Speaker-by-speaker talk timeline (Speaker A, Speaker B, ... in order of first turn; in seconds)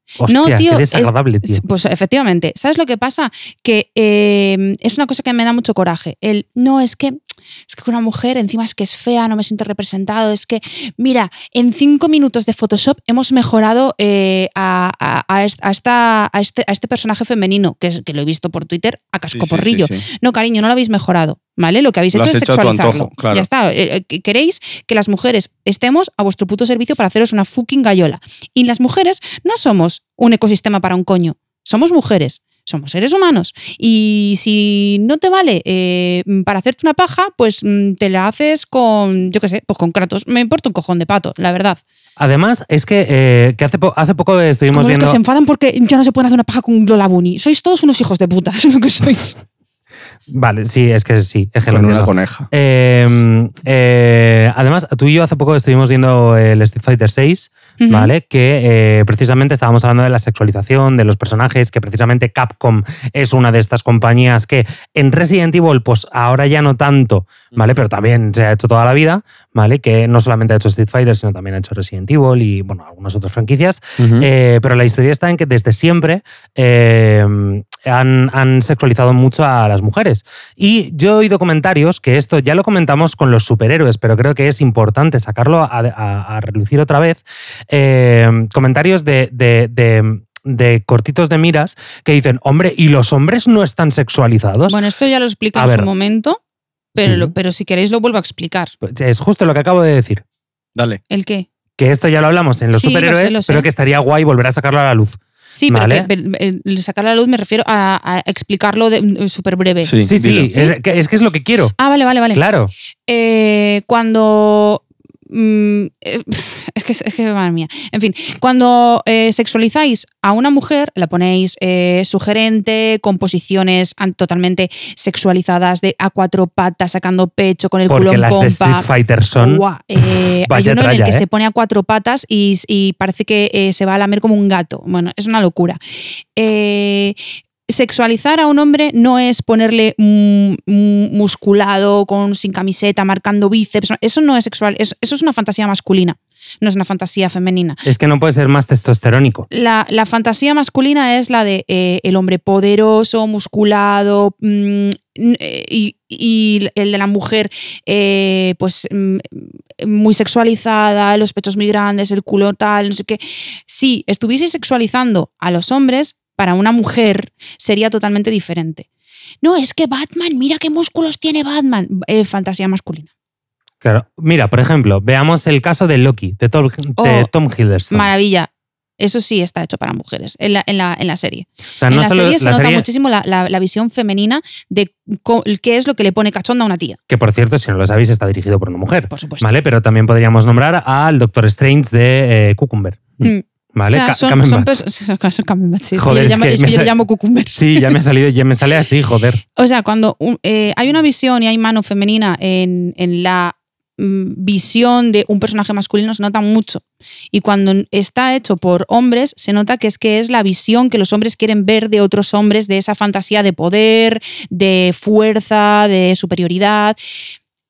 Speaker A: 0.2-1.6, 42.2-45.2, 50.3-94.8, 95.5-95.9, 97.0-97.3, 98.8-100.2, 101.8-106.1, 110.0-111.7, 112.3-112.7, 127.9-131.2, 147.8-149.4, 173.8-178.1, 181.8-182.8, 187.1-194.8, 195.9-196.9, 197.5-199.4
Speaker B: 0.3-41.8, 44.7-49.4, 57.8-58.1, 94.7-96.4, 96.9-98.7, 101.1-101.5, 102.7-103.7, 105.5-110.0, 111.8-112.4, 113.1-135.8, 136.3-137.2, 137.7-147.8, 149.5-168.8, 169.4-173.1, 177.0-177.3, 177.9-187.0, 189.1-189.5, 193.2-198.0, 199.6-217.0
Speaker C: 19.3-20.0, 22.1-23.5, 51.7-52.5, 74.0-74.3, 100.7-101.0, 109.8-110.5